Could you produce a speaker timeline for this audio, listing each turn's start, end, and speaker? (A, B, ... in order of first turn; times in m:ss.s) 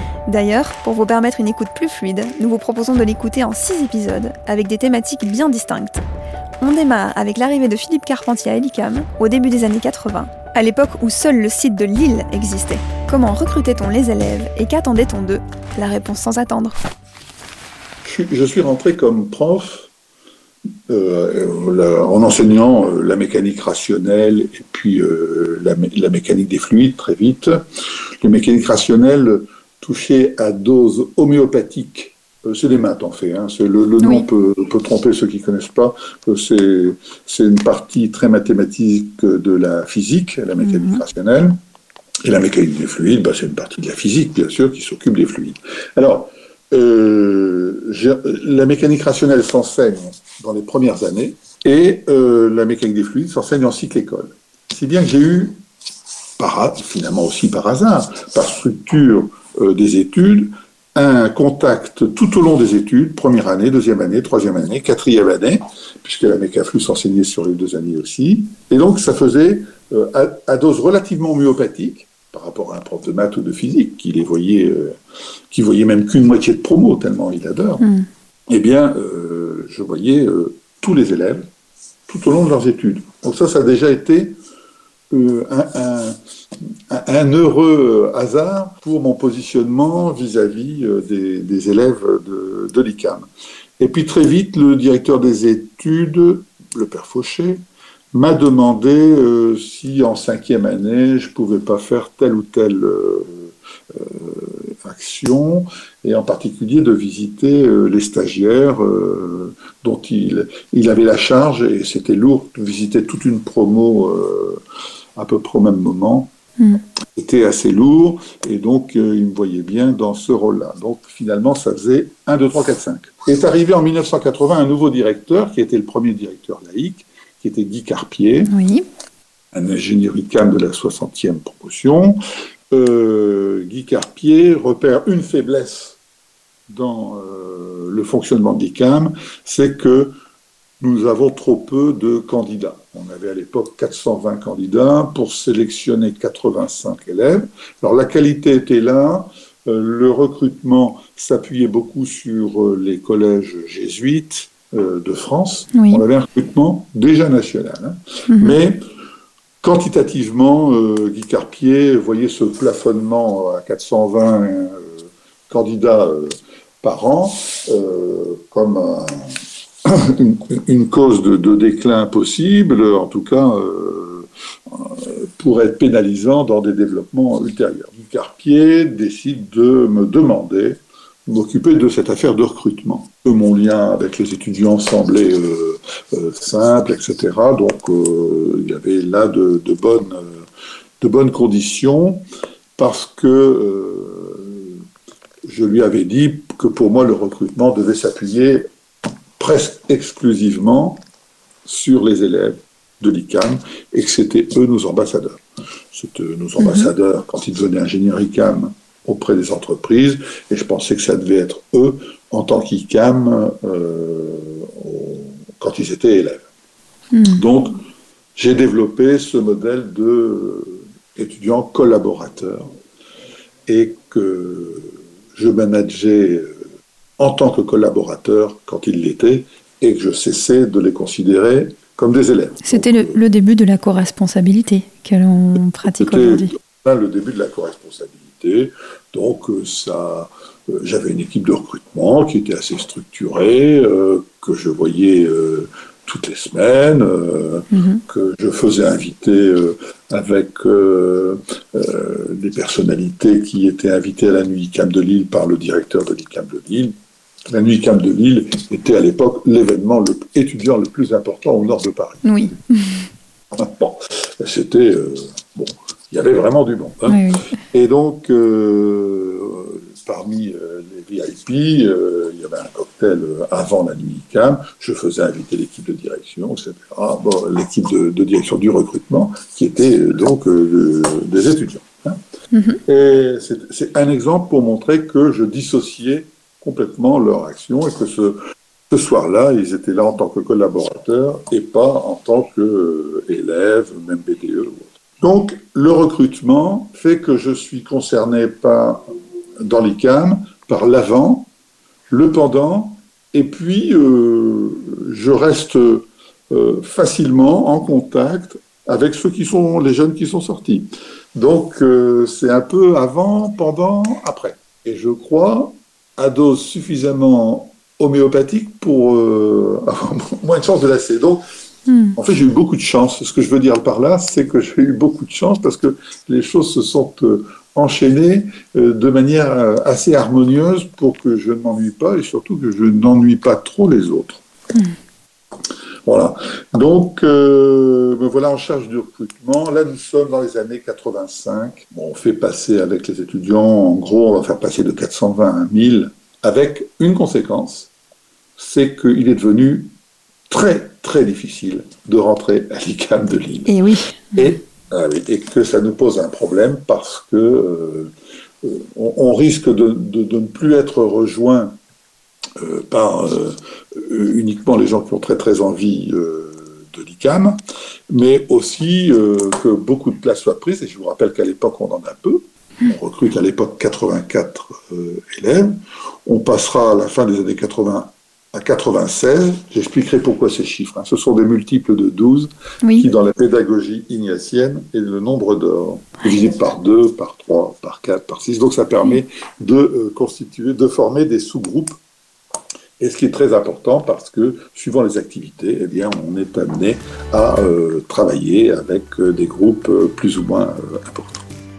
0:00.3-0:06.0 A
0:06.6-0:16.8 A
0:18.0-0:19.9 B
0:20.9-0:27.6 B
0:28.2-0:41.6 B
0:34.0-0:34.3 A
0:40.6-0:41.0 A
0:42.2-0:55.6 B
0:56.4-1:15.0 B
1:15.5-1:17.8 B
1:17.8-1:18.0 A
1:18.5-1:21.5 B
1:22.1-1:24.4 B
1:25.1-1:26.2 B
1:26.9-1:33.3 B
1:33.8-1:54.6 B
1:55.2-1:56.3 B
1:57.2-2:08.5 B
2:08.5-2:08.8 A
2:09.5-2:12.2 B
2:12.7-2:16.0 B
2:16.7-2:20.1 B
2:20.8-2:38.8 B
2:35.7-2:36.0 A
2:38.3-2:38.5 A
2:39.6-3:10.4 B
3:11.0-3:12.2 B
3:12.8-3:14.8 B
3:15.4-3:18.6 B
3:19.4-3:21.0 B
3:21.6-3:25.4 B
3:25.9-3:36.5 B
3:26.6-3:26.9 A
3:37.1-3:37.4 A
3:37.3-3:37.8 B
3:38.4-3:42.7 B
3:43.7-3:46.5 B
3:47.2-3:53.2 B
3:52.6-3:56.5 A
3:55.8-4:16.9 B
4:07.7-4:08.0 A
4:17.5-4:22.2 B
4:22.2-4:23.1 A
4:23.5-4:42.2 B
4:27.0-4:27.4 A
4:42.5-4:42.8 A
4:42.8-4:48.4 B
4:48.9-4:59.1 B
4:59.6-5:01.5 B
5:02.1-5:21.4 B
5:21.9-5:22.2 A
5:22.2-5:34.4 B
5:36.0-5:47.9 B
5:48.6-5:49.9 B
5:50.5-5:53.8 B
5:53.7-5:54.4 A
5:54.4-5:58.1 B
5:58.6-6:01.8 B
6:02.6-6:07.6 B
6:08.1-6:15.7 B
6:16.2-6:31.9 B
6:22.8-6:23.1 A
6:33.0-6:41.4 B